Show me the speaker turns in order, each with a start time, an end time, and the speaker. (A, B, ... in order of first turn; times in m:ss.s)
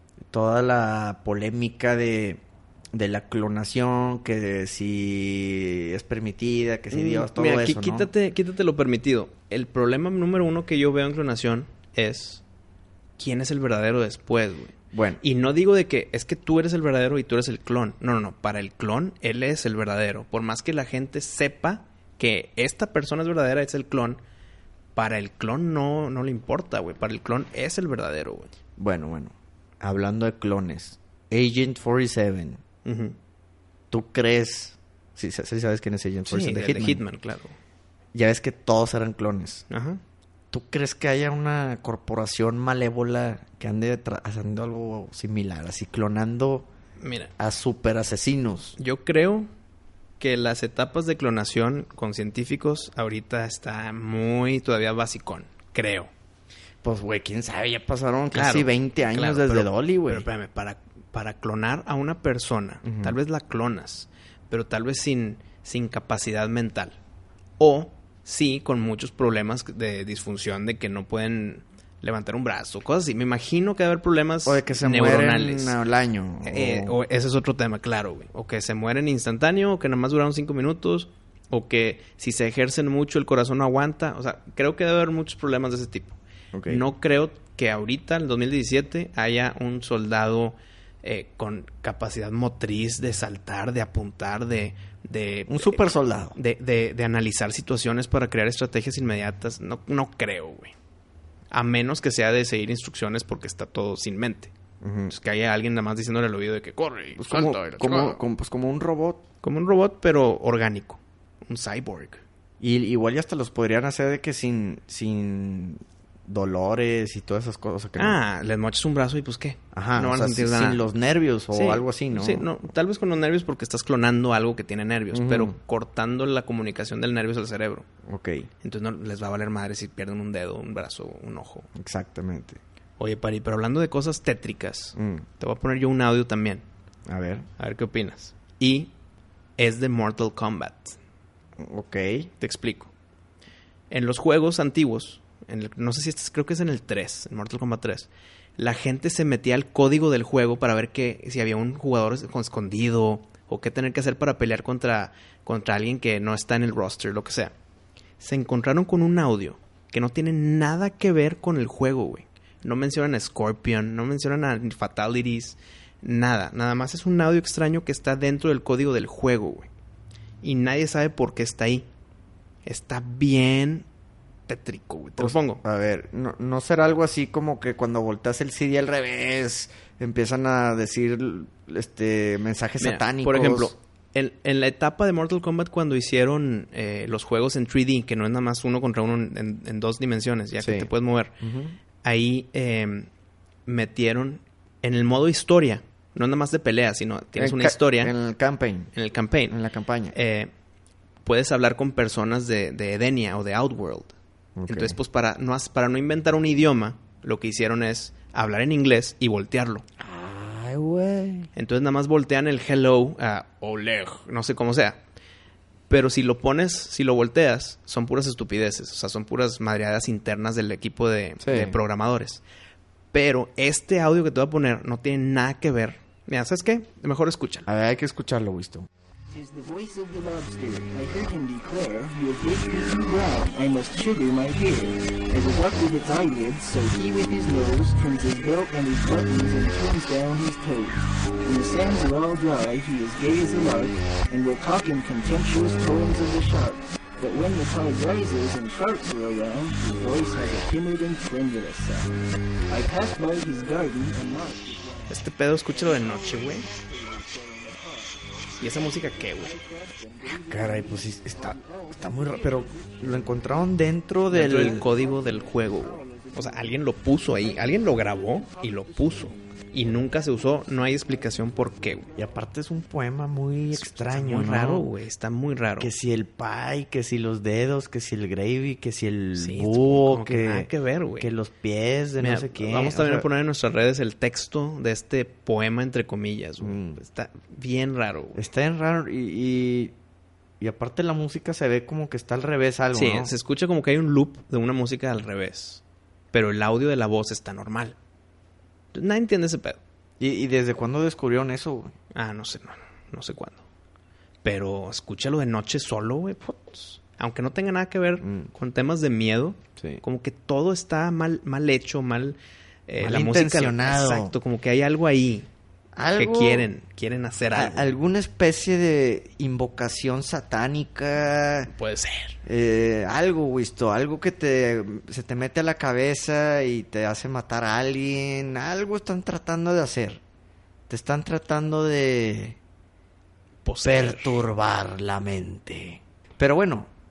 0:00.3-0:02.4 A
0:02.9-0:08.1 A
0:06.9-0:12.4 B
0:13.2-0:24.2 B
0:14.9-0:15.2 A
0:24.9-0:28.5 B
0:28.8-0:32.6 A
0:32.8-0:33.2 B
0:33.9-0:37.0 A
0:36.2-0:37.5 B
0:38.1-0:39.6 A
0:39.7-0:40.0 B
0:40.5-0:46.7 A
0:47.0-0:47.3 B
0:47.4-0:48.8 A
0:48.8-0:49.5 B
0:50.2-0:56.1 B
0:56.8-1:00.3 A
0:58.3-1:07.0 B
1:02.8-1:03.2 A
1:07.6-1:15.8 B
1:14.4-1:17.0 A
1:16.4-1:40.7 B
1:26.5-1:26.8 A
1:35.5-1:36.4 A
1:41.5-1:44.5 B
1:44.8-1:45.1 A
1:45.1-1:48.2 B
1:47.2-1:49.2 A
1:49.4-1:52.2 B
1:52.6-1:58.2 A
1:58.0-2:00.9 B
1:59.7-2:02.5 A
2:01.5-2:07.9 B
2:05.1-2:05.6 A
2:08.0-2:08.5 A
2:08.6-2:11.7 B
2:11.7-2:12.6 A
2:13.0-2:16.6 B
2:15.0-2:15.2 A
2:17.1-2:17.5 A
2:17.6-2:18.9 B
2:19.6-2:21.0 B
2:21.6-2:22.3 A
2:22.4-2:22.9 B
2:23.9-2:37.5 B
2:38.2-2:49.7 B
2:50.4-2:51.9 B
2:52.6-2:53.9 B
2:54.5-2:55.6 B
2:55.2-3:03.7 A
3:02.8-3:11.4 B
3:10.6-3:11.8 A
3:12.0-3:13.1 B
3:13.6-3:18.1 B
3:17.4-3:18.9 A
3:18.9-3:19.6 B
3:19.5-3:20.1 A
3:20.1-3:20.5 B
3:21.2-3:24.2 B
3:24.6-3:25.0 A
3:24.7-3:29.8 B
3:30.0-3:31.5 A
3:31.5-3:35.0 B
3:35.9-3:42.4 B
3:41.4-3:41.8 A
3:43.1-3:47.7 B
3:47.7-3:48.9 A
3:49.3-4:12.1 C
4:12.7-4:23.4 C
4:15.1-4:16.6 B
4:18.6-4:19.5 B
4:20.3-4:24.9 A
4:24.3-4:32.1 B
4:24.4-4:32.5 C
4:32.2-4:34.9 A
4:33.7-4:35.9 B
4:35.8-4:43.3 A
4:39.4-4:41.3 B
4:42.2-4:48.4 B
4:46.6-4:47.0 A
4:48.4-4:49.9 A
4:50.6-4:53.3 A
4:52.9-4:55.8 B
4:56.3-4:58.0 B
4:58.9-4:59.8 B
5:00.2-5:01.9 A
5:02.1-5:03.6 B
5:04.4-5:15.5 B
5:08.2-5:08.5 A
5:09.8-5:10.0 A
5:13.0-5:14.3 A
5:15.9-5:16.7 A
5:16.2-5:18.0 B
5:17.5-5:21.7 A
5:21.7-5:22.4 B
5:22.4-5:30.2 A
5:30.9-5:32.6 A
5:33.6-5:34.4 B
5:33.8-5:36.9 A